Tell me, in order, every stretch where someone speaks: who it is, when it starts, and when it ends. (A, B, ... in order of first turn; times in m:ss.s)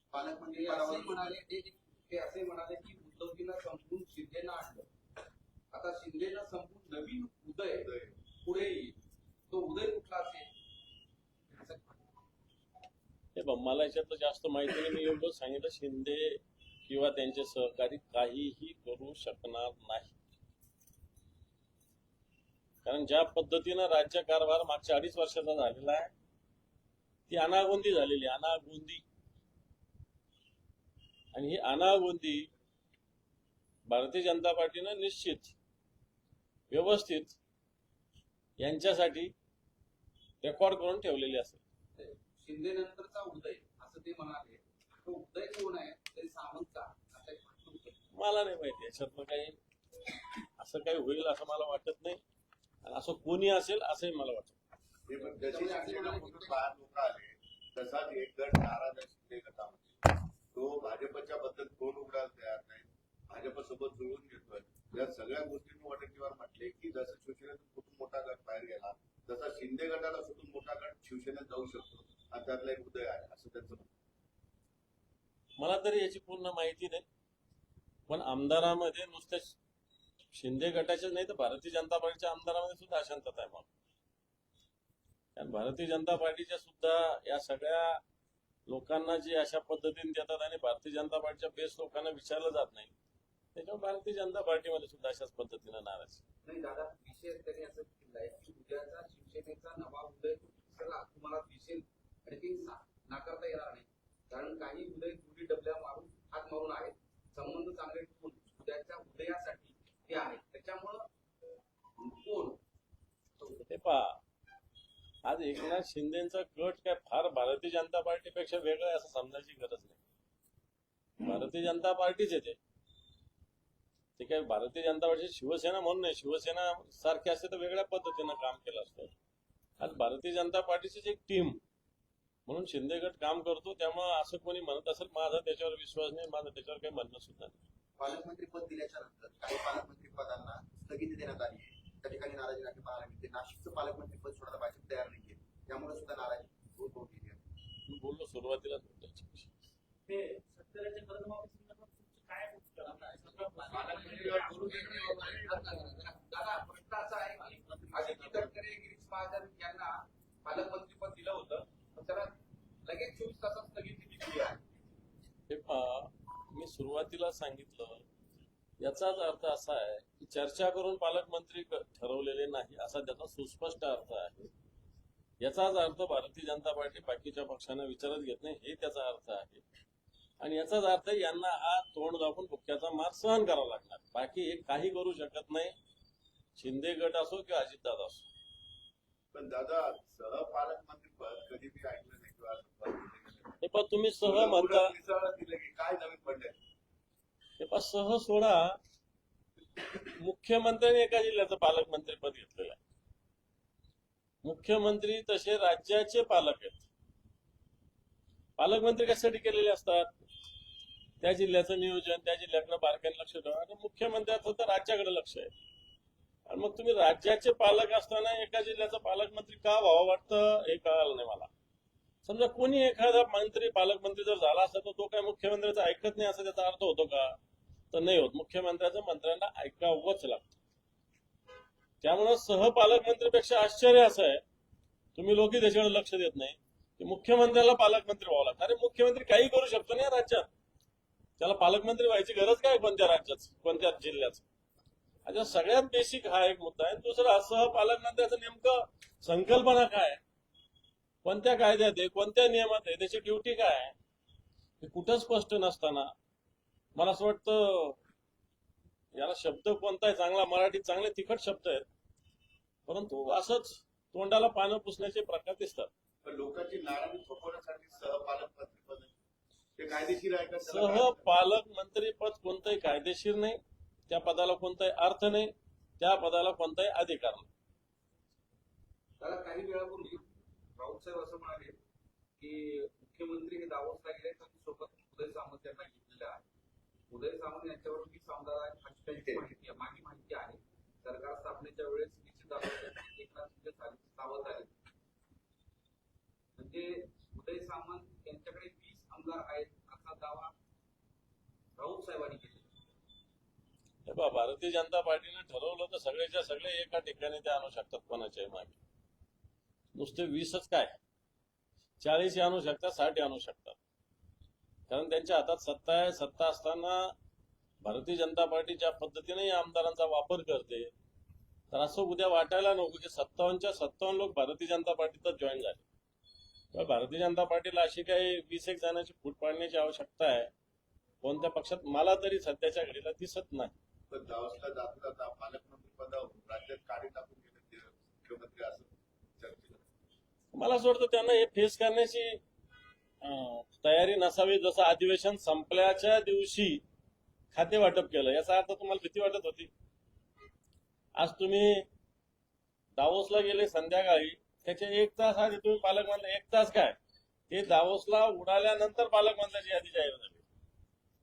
0:00.1-0:01.4 A
0:00.5-0:04.9 B
0:05.7-0:07.9 B
0:07.8-0:08.2 C
0:08.4-0:08.9 B
0:09.5-0:10.5 B
0:11.5-0:12.0 B
0:13.3-0:20.1 D
0:22.8-0:26.1 D
0:27.3-0:29.0 D
0:31.3-0:32.5 D
0:33.8-0:35.5 D
0:36.7-0:37.4 D
0:38.6-0:39.3 D
0:40.4-0:41.6 D
0:42.0-0:48.0 B
0:48.1-0:49.6 D
0:50.6-0:52.2 D
0:52.8-0:54.6 D
0:55.1-1:13.9 C
0:55.4-0:56.6 B
0:55.6-0:56.2 A
1:15.6-1:17.0 D
1:18.1-1:19.6 D
1:20.3-1:23.7 D
1:25.4-1:28.0 D
1:28.7-1:32.9 D
1:33.5-1:36.2 D
1:36.4-1:51.1 B
1:52.0-1:52.6 B
1:53.4-1:53.6 B
1:53.7-1:54.2 D
1:55.2-2:00.0 D
2:01.2-2:02.6 D
2:04.2-2:09.1 D
2:09.8-2:11.6 D
2:12.4-2:17.6 D
2:18.0-2:27.4 A
2:27.8-2:29.5 D
2:30.1-2:35.2 E
2:32.9-2:42.3 B
2:33.7-2:35.7 C
2:37.6-2:38.5 C
2:42.8-2:44.6 B
2:45.5-2:48.0 D
2:48.8-2:54.5 D
2:55.4-2:59.6 D
3:00.4-3:05.7 D
3:06.6-3:08.3 D
3:09.3-3:13.6 C
3:13.6-3:14.9 D
3:14.2-3:16.6 C
3:17.6-3:18.8 D
3:19.9-3:22.8 D
3:24.4-3:26.8 D
3:28.6-3:30.1 D
3:31.2-3:35.5 D
3:36.5-3:41.5 D
3:42.2-3:47.4 D
3:47.9-3:50.5 D
3:52.0-3:54.4 D
3:55.1-4:00.5 D
4:01.4-4:04.4 D
4:05.2-4:10.2 D
4:11.2-4:13.9 D
4:14.8-4:16.1 D
4:16.9-4:18.0 D
4:19.1-4:21.8 D
4:22.9-4:25.9 D
4:26.2-4:29.2 C
4:29.8-4:31.3 C
4:30.6-4:37.5 D
4:39.2-4:41.8 B
4:42.4-4:46.4 B
4:47.1-4:54.7 B
4:56.6-5:00.5 B
5:01.8-5:02.7 B
5:04.0-5:08.8 D
5:09.9-5:11.0 D
5:12.0-5:13.8 D
5:14.9-5:17.1 D
5:17.8-5:20.9 D
5:21.7-5:25.8 D
5:26.7-5:30.5 D
5:31.2-5:33.7 D
5:34.1-5:39.9 C
5:40.5-5:42.4 D
5:43.2-5:46.8 D
5:47.5-5:49.7 D
5:51.2-5:51.8 D
5:53.0-5:57.0 D
5:57.5-6:00.4 D